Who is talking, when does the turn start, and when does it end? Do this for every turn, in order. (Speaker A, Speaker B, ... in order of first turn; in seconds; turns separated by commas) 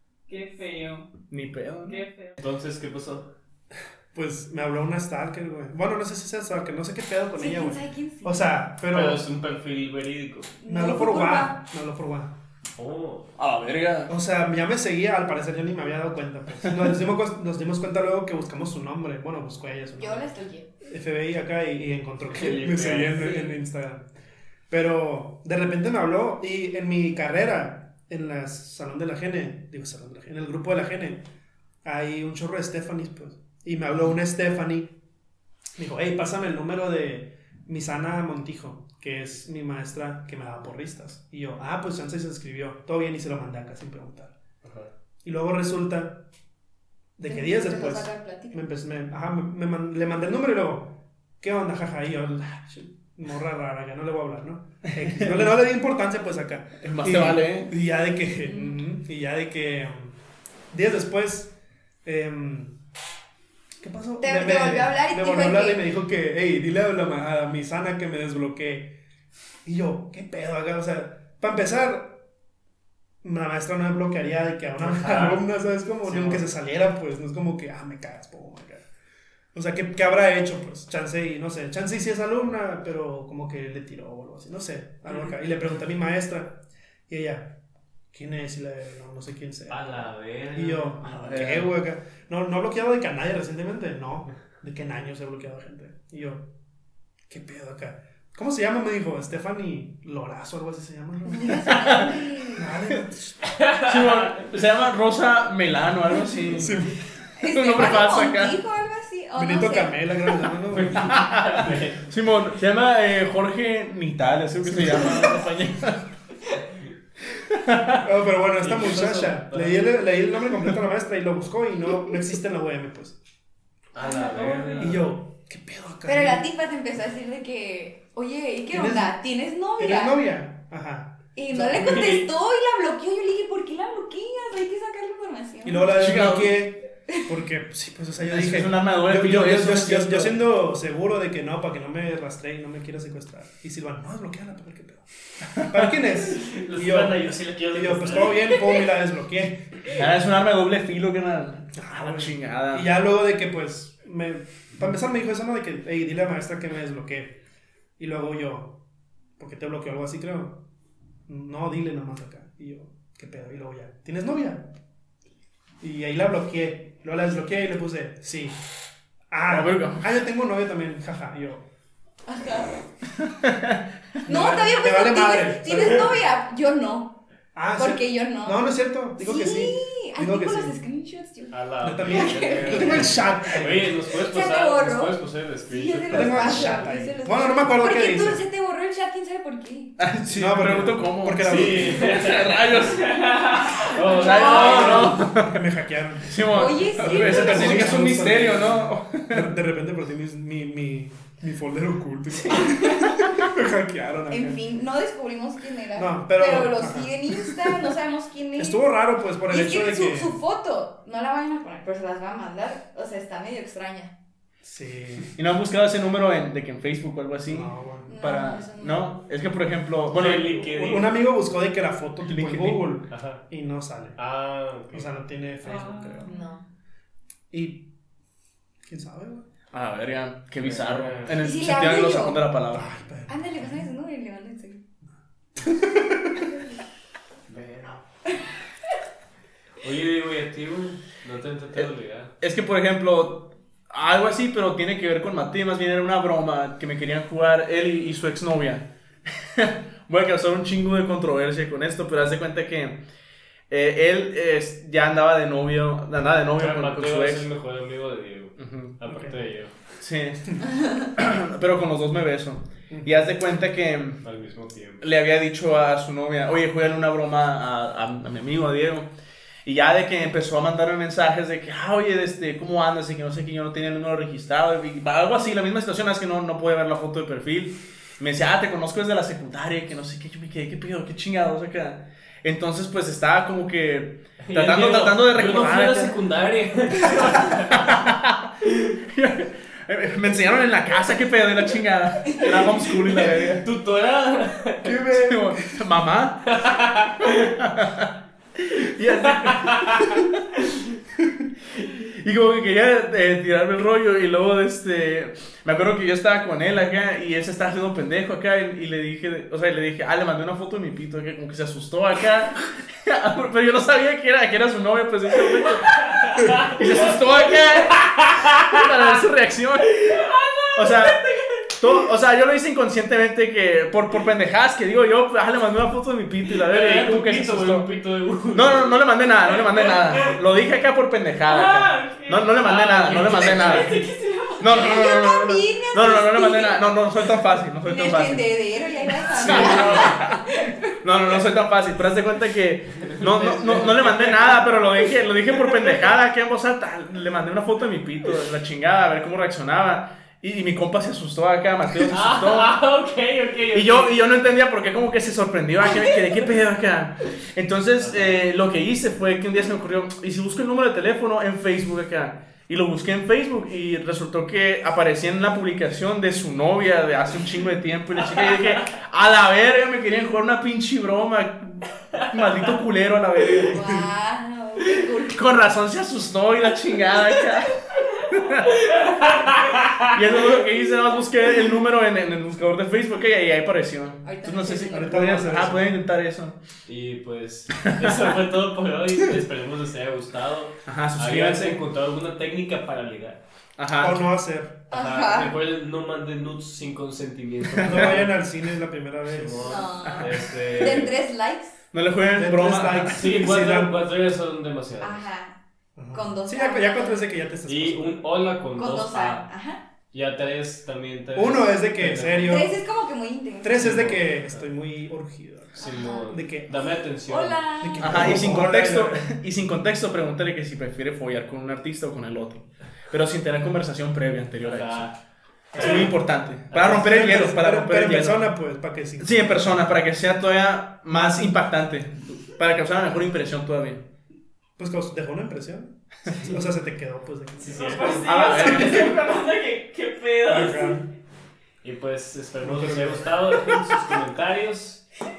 Speaker A: 0.3-1.2, Speaker B: 1.3-2.0, Speaker A: 1.9-2.4, Speaker C: 2.4-3.3, Speaker D: 4.1-9.2, Speaker E: 7.4-8.5, Speaker C: 8.9-10.5, Speaker E: 10.6-11.6, Speaker D: 10.7-12.4, Speaker C: 12.8-13.3, Speaker B: 13.4-14.1, Speaker D: 14.1-20.3, Speaker E: 20.0-20.7, Speaker D: 20.8-24.1, Speaker C: 22.3-23.6, Speaker D: 24.7-31.3, Speaker D: 31.8-35.0, Speaker D: 35.8-44.4, Speaker C: 44.6-44.9, Speaker D: 45.2-46.3, Speaker D: 47.2-60.1, Speaker E: 47.3-48.6, Speaker B: 54.9-55.5, Speaker B: 56.8-57.7, Speaker E: 58.4-58.8, Speaker D: 60.7-62.8, Speaker D: 63.8-69.0, Speaker E: 64.2-65.9, Speaker D: 69.6-72.2, Speaker D: 73.2-78.8, Speaker C: 74.8-75.4, Speaker C: 76.0-76.5, Speaker D: 79.5-87.6, Speaker D: 88.1-96.5, Speaker C: 89.7-91.1, Speaker B: 91.0-91.7, Speaker D: 97.3-103.4, Speaker E: 101.3-102.7, Speaker B: 101.7-102.1, Speaker C: 103.6-104.3, Speaker B: 103.8-106.9, Speaker D: 106.5-107.0, Speaker E: 107.4-110.1, Speaker B: 107.5-108.6, Speaker D: 109.4-111.2, Speaker C: 110.7-112.1, Speaker B: 110.9-116.1, Speaker D: 114.6-115.4, Speaker B: 117.4-118.1, Speaker D: 118.0-123.2, Speaker C: 118.6-120.0, Speaker C: 123.9-125.1, Speaker E: 124.0-125.0, Speaker D: 124.8-126.5, Speaker E: 126.1-130.2, Speaker D: 128.7-129.1, Speaker D: 129.8-132.2, Speaker E: 131.3-136.0, Speaker C: 131.8-132.2, Speaker D: 135.6-145.1, Speaker B: 135.9-136.6, Speaker B: 138.3-140.4, Speaker B: 145.5-145.9, Speaker D: 145.6-149.9, Speaker C: 146.3-148.8, Speaker B: 149.9-153.0, Speaker D: 151.8-157.4, Speaker D: 158.0-158.8, Speaker D: 159.4-160.7, Speaker D: 161.3-164.7, Speaker D: 165.8-168.6, Speaker D: 169.3-171.6, Speaker B: 169.5-170.1, Speaker E: 172.3-172.7, Speaker B: 173.2-173.8, Speaker D: 174.2-176.3, Speaker E: 174.3-177.2, Speaker D: 177.6-180.8, Speaker E: 177.8-183.2, Speaker C: 181.5-187.0, Speaker D: 181.8-184.0, Speaker E: 184.1-190.0, Speaker D: 186.1-188.4, Speaker B: 190.0-195.6, Speaker D: 190.2-192.3, Speaker C: 191.4-193.0, Speaker A: 193.0-193.8, Speaker C: 193.8-195.1, Speaker E: 194.1-195.2, Speaker D: 194.5-204.6, Speaker B: 196.2-199.5, Speaker E: 196.5-198.3, Speaker B: 202.3-203.4, Speaker E: 202.6-203.1, Speaker E: 204.3-208.8, Speaker D: 205.9-207.9, Speaker D: 208.6-210.4, Speaker E: 209.5-214.1, Speaker D: 214.6-215.3, Speaker B: 215.4-220.5, Speaker D: 217.5-218.1, Speaker E: 218.1-219.1, Speaker C: 220.1-221.2, Speaker D: 220.3-224.2, Speaker B: 222.2-223.0, Speaker C: 223.1-223.4, Speaker C: 224.2-225.1, Speaker D: 224.9-226.3, Speaker A: 225.6-226.4, Speaker E: 226.2-226.6, Speaker D: 227.5-227.9, Speaker D: 228.9-229.4, Speaker B: 229.7-232.9, Speaker C: 230.6-231.4, Speaker E: 231.4-232.4, Speaker D: 232.7-233.8, Speaker E: 233.3-234.8, Speaker D: 235.6-236.5, Speaker C: 237.5-238.0, Speaker C: 239.8-242.3, Speaker B: 242.4-253.1, Speaker B: 253.7-257.4, Speaker C: 256.6-259.9, Speaker B: 258.6-259.0, Speaker B: 260.0-264.2, Speaker D: 262.9-263.2, Speaker C: 264.2-265.1, Speaker B: 265.0-269.1, Speaker B: 269.6-286.1, Speaker C: 284.4-287.9, Speaker B: 287.0-288.5, Speaker B: 289.0-293.6, Speaker C: 292.3-295.0, Speaker D: 294.8-295.8, Speaker B: 295.1-296.6, Speaker C: 296.5-297.5, Speaker B: 297.4-300.3, Speaker C: 299.3-300.1, Speaker B: 301.9-320.2, Speaker C: 315.9-317.2, Speaker C: 318.4-318.8, Speaker A: 320.3-320.9, Speaker B: 320.8-327.9, Speaker C: 321.0-321.6, Speaker C: 326.6-329.0, Speaker B: 328.5-334.1, Speaker A: 329.8-330.2, Speaker A: 331.4-334.8, Speaker C: 332.6-334.1, Speaker B: 334.6-338.5, Speaker E: 334.6-336.9, Speaker E: 337.8-341.0, Speaker B: 339.4-340.4, Speaker C: 339.4-340.1, Speaker D: 339.5-340.1, Speaker B: 341.0-352.8, Speaker C: 343.0-345.0, Speaker C: 352.0-354.2, Speaker B: 353.7-373.8, Speaker C: 355.9-356.2, Speaker C: 358.0-358.4, Speaker C: 368.4-368.8, Speaker E: 373.7-375.4, Speaker B: 375.3-379.0, Speaker C: 378.9-380.1, Speaker B: 380.1-386.6, Speaker E: 384.2-385.4, Speaker D: 384.8-386.0, Speaker C: 386.9-393.4, Speaker B: 390.9-391.8, Speaker B: 393.8-394.2, Speaker D: 394.0-394.9, Speaker E: 394.9-395.6, Speaker C: 394.9-398.4, Speaker B: 397.7-398.1, Speaker D: 397.8-399.8, Speaker C: 399.2-401.1, Speaker E: 399.6-401.8, Speaker B: 400.0-400.4, Speaker B: 401.9-403.4, Speaker D: 402.3-404.0, Speaker C: 403.1-405.2, Speaker E: 405.0-405.6, Speaker D: 405.9-408.3, Speaker E: 406.1-407.3, Speaker C: 407.7-409.5, Speaker E: 408.8-409.8, Speaker C: 410.1-412.7, Speaker D: 411.3-412.7, Speaker E: 412.4-413.9, Speaker D: 413.6-416.9, Speaker C: 413.8-414.6, Speaker E: 415.8-416.4, Speaker C: 415.8-417.6, Speaker E: 417.3-418.5, Speaker D: 417.8-419.3, Speaker B: 418.0-425.1, Speaker C: 424.6-425.2, Speaker D: 425.7-426.1, Speaker C: 425.7-426.1, Speaker B: 425.8-428.5, Speaker C: 426.7-427.2, Speaker D: 426.7-429.9, Speaker B: 429.2-434.1, Speaker D: 431.1-431.6, Speaker D: 434.8-439.1, Speaker C: 436.3-436.6, Speaker C: 437.6-439.4, Speaker A: 437.8-440.9, Speaker B: 438.2-439.2, Speaker D: 440.5-441.1, Speaker C: 441.8-445.1, Speaker D: 442.6-443.3